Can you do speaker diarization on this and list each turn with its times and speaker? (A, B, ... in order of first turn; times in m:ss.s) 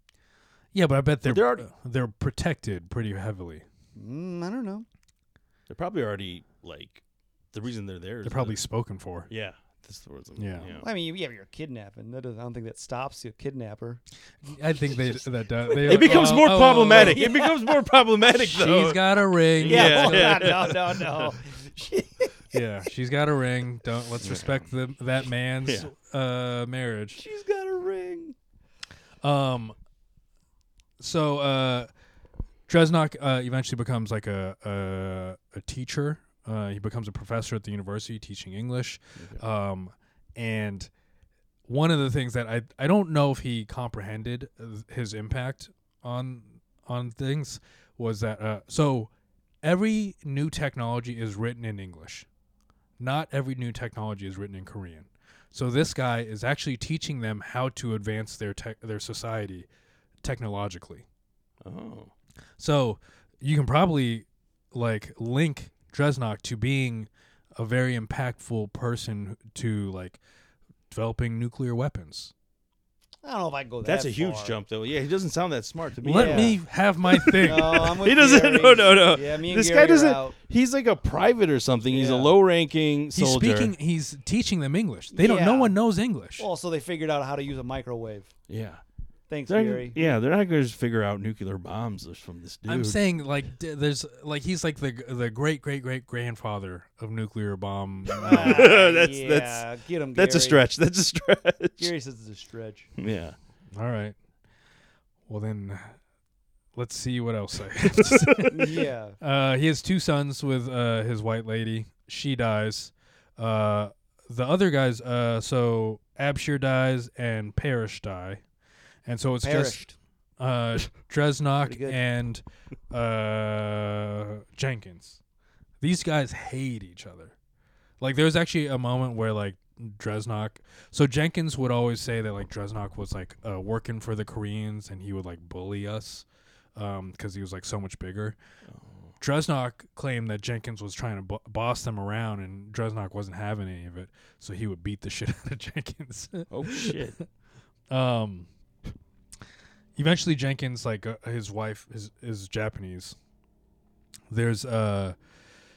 0:00.7-0:03.6 A
0:01.2-0:01.7 B
0:04.0-0:04.9 C
0:05.7-0:08.6 B
0:08.2-0:09.3 A
0:09.3-0:10.9 B
0:10.4-0:10.7 A
0:10.8-0:14.0 C
0:14.4-0:17.3 A
0:15.0-0:17.7 C
0:15.8-0:21.3 B
0:18.4-0:20.7 A
0:19.7-0:22.6 C
0:22.5-0:27.2 A
0:24.2-0:24.6 B
0:25.6-0:25.9 B
0:27.2-0:28.4 C
0:29.2-0:29.8 A
0:31.0-0:31.9 A
0:32.7-0:40.9 A
0:39.2-0:39.4 B
0:41.7-0:49.1 A
0:49.6-0:52.3 A
0:53.0-0:59.7 A
1:00.2-1:01.0 A
1:01.6-1:02.1 B
1:02.6-1:10.2 A
1:10.9-1:12.3 A
1:13.2-1:14.6 C
1:13.8-1:16.6 B
1:16.0-1:18.0 A
1:16.1-1:16.6 C
1:17.1-1:23.7 B
1:17.4-1:20.3 C
1:21.9-1:22.3 C
1:23.1-1:26.5 A
1:25.1-1:25.8 C
1:26.4-1:28.3 C
1:28.5-1:28.8 B
1:29.3-1:30.2 C
1:29.5-1:33.0 B
1:32.7-1:38.7 A
1:38.1-1:41.9 B
1:38.1-1:40.6 C
1:41.8-1:42.9 C
1:43.0-1:43.4 B
1:43.7-1:44.2 A
1:45.3-1:46.0 A
1:46.7-1:58.4 A
1:48.0-1:48.5 B
1:48.5-1:49.2 C
1:59.0-1:59.8 A
1:59.4-2:00.0 C
2:00.4-2:05.2 A
2:01.7-2:02.0 C
2:05.8-2:07.3 A
2:08.0-2:18.4 A
2:18.7-2:19.1 B
2:19.2-2:27.0 A
2:26.5-2:27.2 B
2:27.9-2:28.5 A
2:30.0-2:33.2 A
2:34.3-2:35.2 A